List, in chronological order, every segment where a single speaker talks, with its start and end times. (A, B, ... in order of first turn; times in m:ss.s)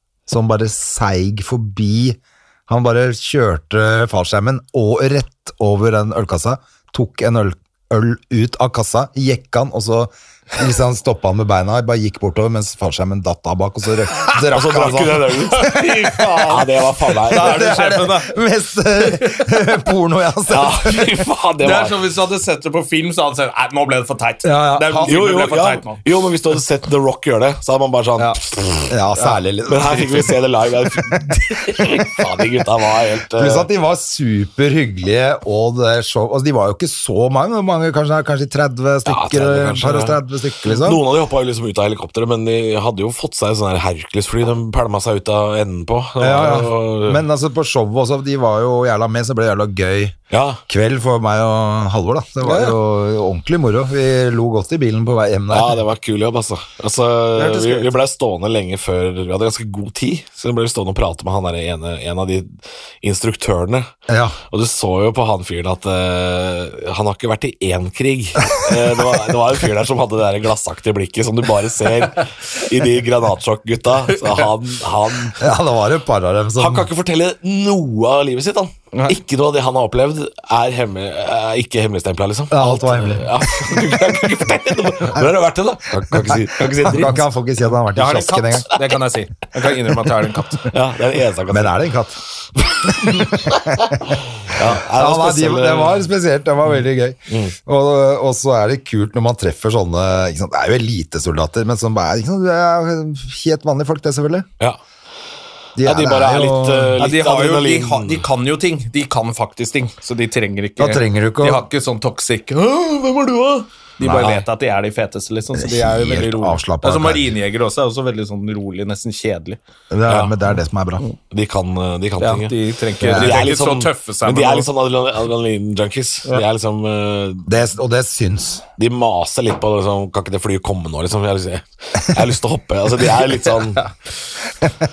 0:00.3-0:21.1 A
0:14.5-0:17.7 B
0:15.7-0:16.4 C
0:17.3-0:18.4 C
0:19.0-0:19.6 C
0:20.5-0:22.0 B
0:21.6-0:26.0 C
0:24.4-0:25.2 A
0:25.0-0:28.9 B
0:28.9-0:30.4 A
0:29.7-0:33.7 B
0:30.9-0:32.4 A
0:33.3-0:41.0 A
0:39.0-0:47.2 B
0:46.2-0:50.2 A
0:50.3-0:50.6 B
0:50.7-0:55.8 A
0:52.4-0:52.8 C
0:55.5-1:03.9 B
0:57.4-0:57.9 C
1:04.1-1:04.4 A
1:04.5-1:15.5 B
1:15.4-1:16.9 A
1:16.6-1:27.2 B
1:22.5-1:23.3 A
1:26.1-1:28.7 A
1:26.6-1:27.0 C
1:27.9-1:30.7 C
1:30.7-1:31.9 B
1:31.5-1:32.2 A
1:32.6-1:36.1 B
1:32.8-1:44.4 A
1:37.3-1:37.6 B
1:45.8-1:47.0 A
1:45.8-1:48.3 B
1:47.0-1:59.6 C
1:50.8-1:51.6 A
1:54.0-1:54.3 A
1:55.6-1:57.3 A
1:59.9-2:01.0 A
2:00.1-2:00.3 B
2:01.3-2:07.5 B
2:02.2-2:04.7 C
2:03.0-2:03.4 A
2:07.4-2:08.6 A
2:08.8-2:13.8 B